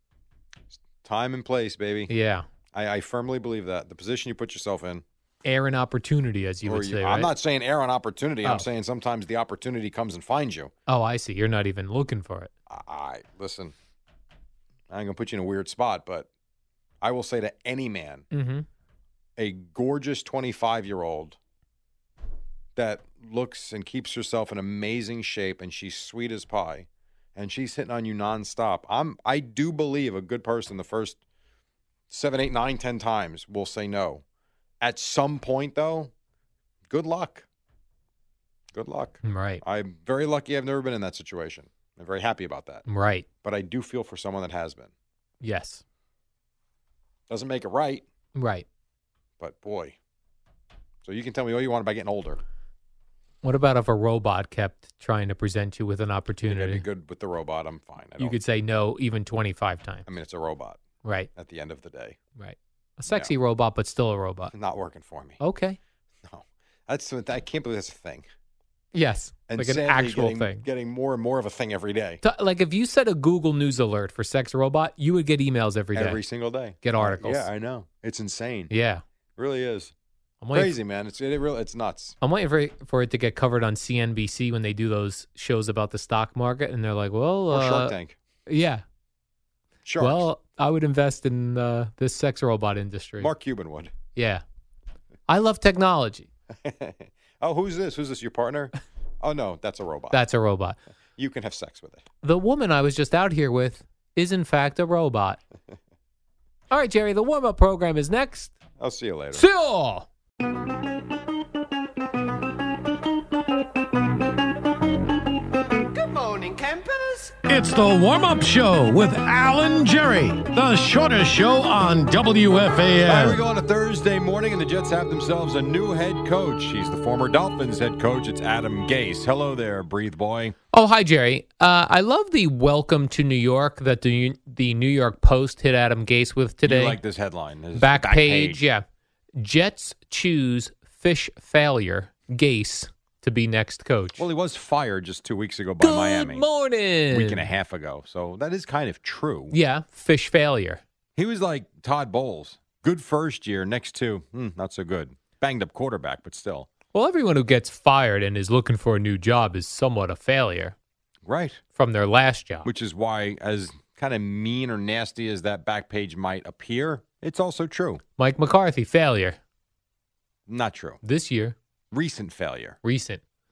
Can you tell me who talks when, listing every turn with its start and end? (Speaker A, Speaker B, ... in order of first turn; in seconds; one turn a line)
Speaker A: 0.7-2.1
Speaker B: 2.1-2.5
Speaker A: 2.7-5.0
Speaker B: 5.4-7.3
Speaker A: 6.7-10.7
Speaker B: 10.9-12.5
Speaker A: 12.7-13.7
Speaker A: 14.9-16.3
Speaker A: 17.0-18.2
Speaker B: 18.3-18.6
Speaker A: 19.4-21.4
Speaker A: 22.8-31.2
Speaker A: 32.1-34.2
Speaker A: 34.8-36.1
Speaker A: 36.9-37.4
Speaker A: 38.7-42.8
Speaker B: 39.2-39.6
Speaker B: 42.9-43.2
Speaker A: 43.4-44.9
Speaker B: 45.4-45.8
Speaker A: 47.3-48.0
Speaker B: 48.4-48.6
Speaker A: 49.4-50.0
Speaker A: 51.0-52.4
Speaker B: 53.4-56.8
Speaker A: 56.5-58.4
Speaker B: 58.2-60.1
Speaker A: 60.1-60.8
Speaker B: 61.0-61.3
Speaker A: 61.4-62.2
Speaker B: 62.4-64.5
Speaker A: 64.5-65.4
Speaker B: 65.4-65.8
Speaker A: 66.2-68.2
Speaker B: 68.9-70.6
Speaker A: 69.5-72.2
Speaker B: 72.2-76.2
Speaker A: 75.9-78.7
Speaker B: 76.8-77.5
Speaker B: 78.7-79.0
Speaker A: 79.4-79.9
Speaker B: 80.4-80.7
Speaker A: 80.5-82.2
Speaker B: 82.2-88.0
Speaker A: 87.5-88.2
Speaker B: 88.5-88.8
Speaker A: 89.8-90.2
Speaker B: 90.0-93.3
Speaker A: 93.2-93.9
Speaker B: 94.1-94.4
Speaker B: 95.3-96.3
Speaker A: 96.6-100.2
Speaker B: 100.1-100.8
Speaker A: 101.2-102.0
Speaker B: 102.2-105.4
Speaker B: 106.7-108.5
Speaker A: 108.8-109.4
Speaker B: 109.3-110.1
Speaker B: 116.1-117.3
Speaker C: 117.4-123.4
Speaker A: 123.0-130.6
Speaker B: 130.7-137.0
Speaker A: 136.6-138.6
Speaker B: 137.8-138.8
Speaker B: 139.4-144.2
Speaker A: 144.2-146.4
Speaker B: 145.8-147.5
Speaker A: 147.1-149.5
Speaker B: 149.5-150.8
Speaker A: 151.2-156.7
Speaker B: 156.9-160.7
Speaker A: 161.2-161.6
Speaker B: 161.8-162.7
Speaker A: 162.6-168.0
Speaker B: 168.2-169.4
Speaker A: 170.5-171.0
Speaker B: 171.0-171.5
Speaker A: 171.9-172.8
Speaker B: 172.8-173.2